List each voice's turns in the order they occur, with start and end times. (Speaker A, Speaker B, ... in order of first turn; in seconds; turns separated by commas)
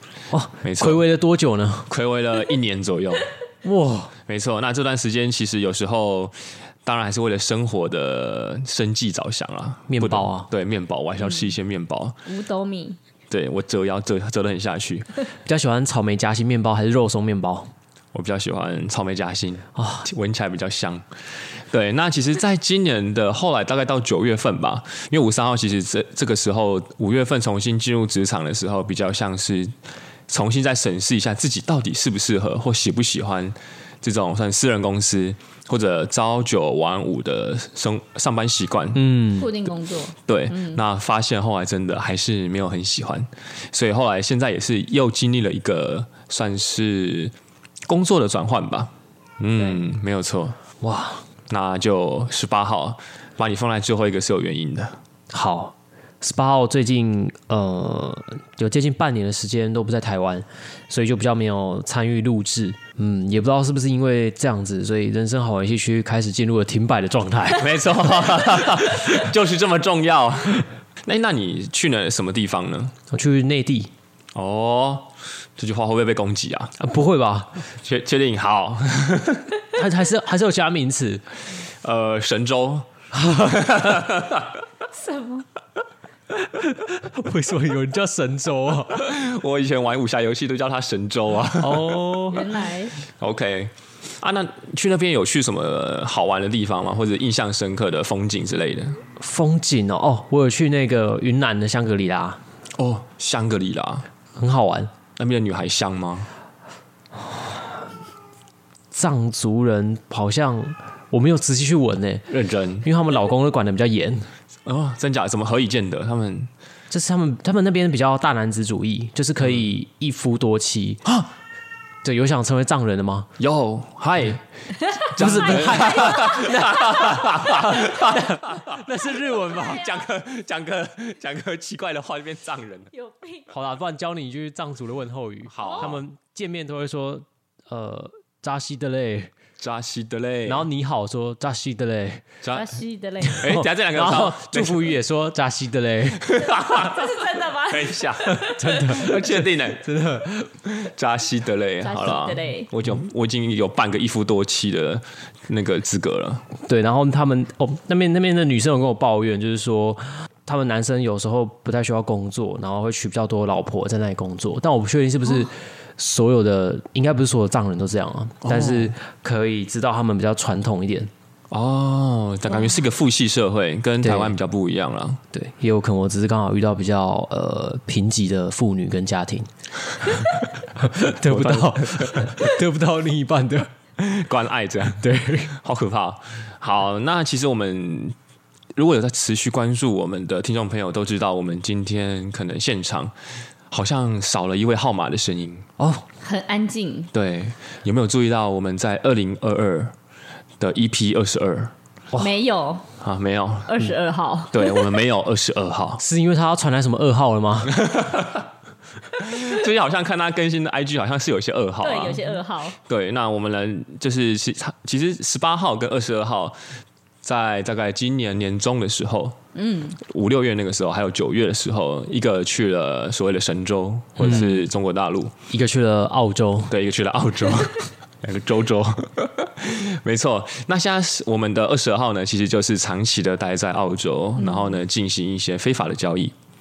Speaker A: 0.3-1.9, Speaker B: 0.6-1.0, Speaker B: 1.9-3.3, Speaker A: 3.6-4.1, Speaker B: 4.3-12.2, Speaker A: 9.9-10.5, Speaker C: 12.2-13.0, Speaker B: 13.3-15.2, Speaker A: 15.4-17.7, Speaker B: 18.1-21.1, Speaker A: 19.8-20.1, Speaker B: 21.6-29.7, Speaker B: 30.3-39.2, Speaker A: 38.9-39.5, Speaker C: 39.4-40.8, Speaker B: 40.2-47.3, Speaker B: 47.9-50.6, Speaker C: 49.6-49.8, Speaker A: 50.8-51.3, Speaker B: 51.5-55.0, Speaker A: 55.3-67.8, Speaker B: 67.6-72.9, Speaker A: 73.1-73.9, Speaker B: 74.3-76.8, Speaker A: 76.8-77.5, Speaker B: 77.7-79.6, Speaker A: 79.8-81.2, Speaker B: 81.6-84.6, Speaker C: 84.9-85.5, Speaker A: 86.4-89.1, Speaker B: 89.0-92.2, Speaker A: 91.5-92.6, Speaker C: 92.3-93.0, Speaker B: 93.1-99.0, Speaker A: 99.2-102.4, Speaker B: 102.8-104.1, Speaker A: 104.4-104.9, Speaker B: 105.2-106.3, Speaker A: 108.9-112.3, Speaker B: 112.3-112.9, Speaker A: 112.8-114.3, Speaker B: 114.7-116.5, Speaker A: 116.9-121.0, Speaker A: 122.0-123.3, Speaker B: 123.4-128.8, Speaker A: 125.2-129.9, Speaker C: 125.2-127.0, Speaker C: 129.3-130.0, Speaker B: 129.5-132.9, Speaker C: 132.9-133.5, Speaker A: 133.5-139.3, Speaker B: 135.5-136.0, Speaker C: 135.6-135.9, Speaker B: 139.6-140.7, Speaker A: 140.4-142.2, Speaker B: 142.4-142.8, Speaker C: 142.5-143.5, Speaker A: 143.2-146.2, Speaker B: 143.3-144.9, Speaker B: 146.2-149.9, Speaker C: 146.4-148.8, Speaker A: 148.2-150.5, Speaker B: 150.6-156.4, Speaker C: 151.8-152.7, Speaker A: 156.6-171.1, Speaker B: 168.4-168.9, Speaker B: 171.5-175.2, Speaker A: 174.0-174.3, Speaker A: 175.3-179.5, Speaker A: 180.0-183.7, Speaker B: 181.2-182.3, Speaker B: 184.0-188.2, Speaker A: 185.0-185.5, Speaker B: 188.7-193.1, Speaker B: 193.7-195.7, Speaker A: 195.8-196.0, Speaker C: 196.2-197.1, Speaker B: 197.1-199.9, Speaker B: 200.6-201.7, Speaker C: 202.2-202.8, Speaker B: 203.0-203.9, Speaker C: 203.7-205.0, Speaker B: 204.5-206.0, Speaker A: 206.0-207.7, Speaker B: 207.7-208.5, Speaker B: 209.2-216.6, Speaker C: 211.8-212.8, Speaker B: 217.2-219.4, Speaker C: 219.5-220.0, Speaker B: 220.0-225.3, Speaker A: 224.2-224.6, Speaker A: 225.5-226.7, Speaker B: 226.7-236.3, Speaker C: 234.4-234.8